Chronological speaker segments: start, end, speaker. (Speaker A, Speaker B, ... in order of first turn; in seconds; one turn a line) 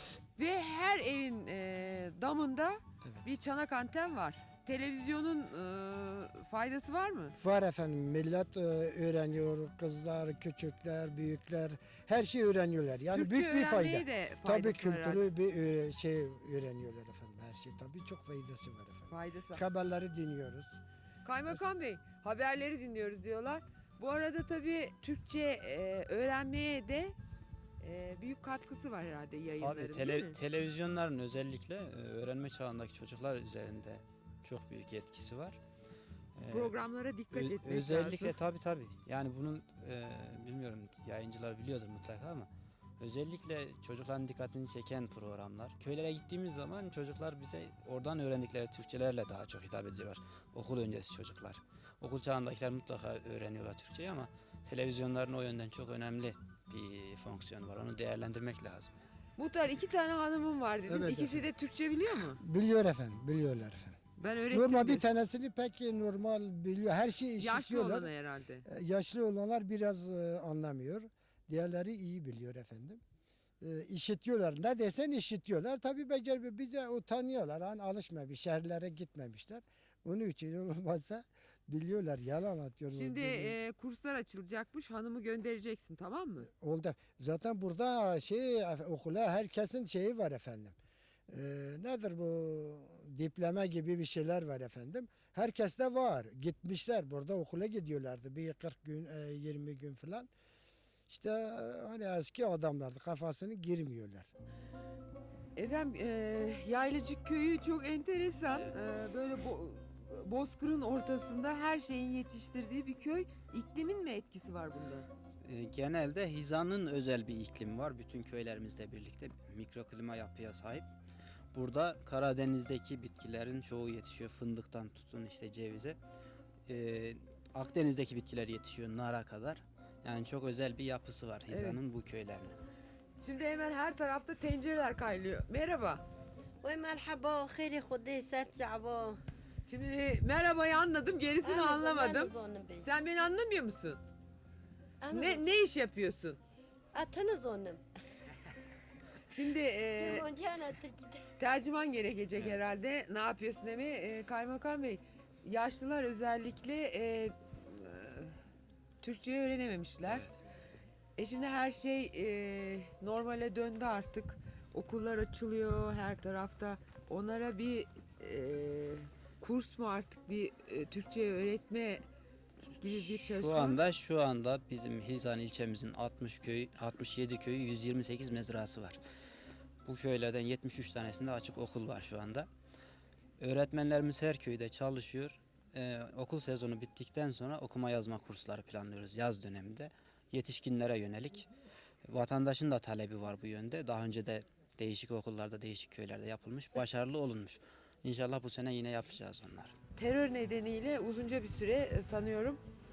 Speaker A: 0.4-7.4
Speaker B: 3.0-3.3
Speaker B: 7.4-20.8
Speaker A: 13.1-15.2
Speaker A: 19.1-19.6
Speaker A: 21.2-27.1
Speaker A: 27.8-30.4
Speaker C: 29.6-35.6
Speaker C: 36.4-36.7
Speaker A: 36.5-38.4
Speaker C: 37.3-58.9
Speaker A: 59.4-62.4
Speaker B: 60.9-61.5
Speaker B: 62.4-64.0
Speaker A: 64.2-65.0
Speaker B: 64.5-68.1
Speaker A: 67.4-68.7
Speaker B: 68.7-73.0
Speaker B: 73.6-83.5
Speaker A: 82.9-86.5
Speaker B: 86.5-90.8
Speaker B: 91.3-100.3
Speaker B: 101.1-104.3
Speaker A: 105.6-115.1
Speaker C: 115.4-120.9
Speaker C: 121.5-126.0
Speaker C: 126.7-132.6
Speaker A: 131.5-131.8
Speaker A: 133.2-136.0
Speaker D: 136.6-139.2
Speaker A: 139.7-144.0
Speaker D: 141.4-142.9
Speaker D: 145.0-145.5
Speaker A: 145.1-146.4
Speaker D: 146.9-147.8
Speaker A: 149.3-150.3
Speaker D: 150.0-151.2
Speaker A: 151.4-158.4
Speaker A: 159.0-160.3
Speaker A: 161.2-172.0
Speaker A: 172.8-173.8
Speaker C: 172.9-179.0
Speaker C: 179.8-182.5
Speaker C: 183.4-191.5
Speaker C: 192.1-199.8
Speaker A: 200.0-202.6